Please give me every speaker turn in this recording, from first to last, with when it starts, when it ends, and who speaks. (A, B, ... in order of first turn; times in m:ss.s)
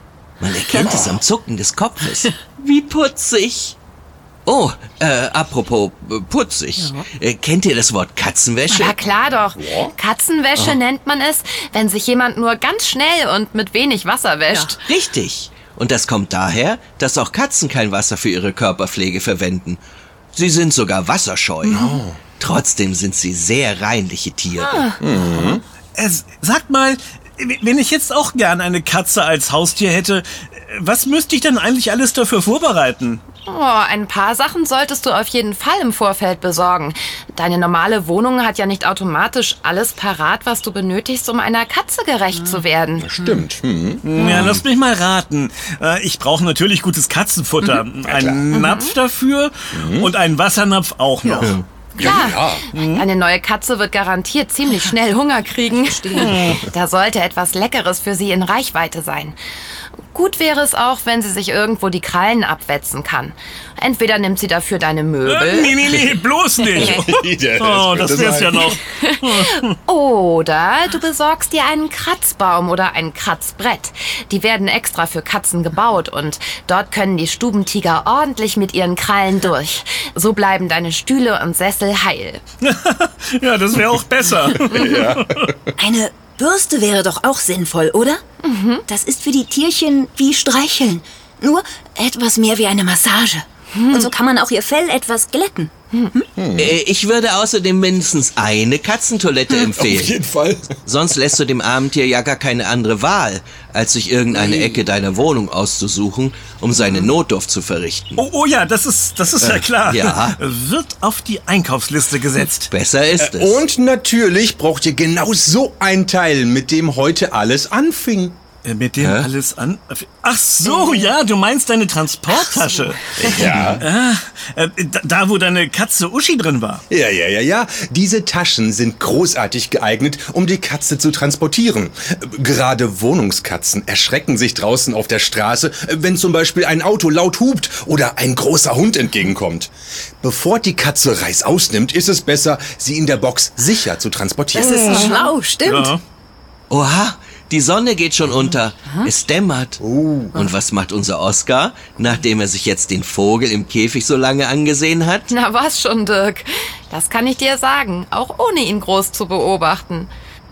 0:00.4-0:03.8 A
0:04.4-0:09.0 A
0:08.7-0:14.8 B
0:09.6-0:09.9 C
0:14.5-0:19.8 A
0:20.3-0:24.9 A
0:21.7-0:22.2 C
0:24.5-0:25.0 B
0:25.0-0:25.6 C
0:25.9-0:33.2 D
0:33.4-0:43.1 B
0:43.0-0:44.5 C
0:44.0-0:52.2 D
0:48.0-0:48.5 C
0:48.5-0:48.9 B
0:49.7-0:50.1 C
0:52.0-0:52.6 C
0:52.0-0:59.4 B
0:52.7-0:53.0 D
0:55.8-0:56.5 E
0:56.2-0:56.6 D
1:00.1-1:05.8 B
1:05.2-1:09.7 D
1:06.7-1:08.7 C
1:08.5-1:22.4 B
1:22.6-1:25.5 D
1:24.5-1:25.7 C
1:25.8-1:28.2 E
1:28.4-1:28.8 B
1:28.8-1:36.3 E
1:33.7-1:34.1 B
1:36.4-1:36.8 C
1:36.6-1:40.2 A
1:39.5-1:40.8 C
1:40.8-1:48.2 A
1:44.3-1:44.8 C
1:48.1-1:52.7 D
1:49.4-1:50.4 A
1:52.7-1:53.6 A
1:53.2-1:58.4 C
1:58.6-2:06.8 D
1:59.0-1:59.3 A
2:03.2-2:03.8 C
2:06.9-2:25.1 C
2:24.5-2:25.9 E
2:24.6-2:26.0 D
2:26.7-2:29.8 A
2:29.8-2:30.4 C
2:30.3-2:35.3 A
2:35.3-2:40.1 B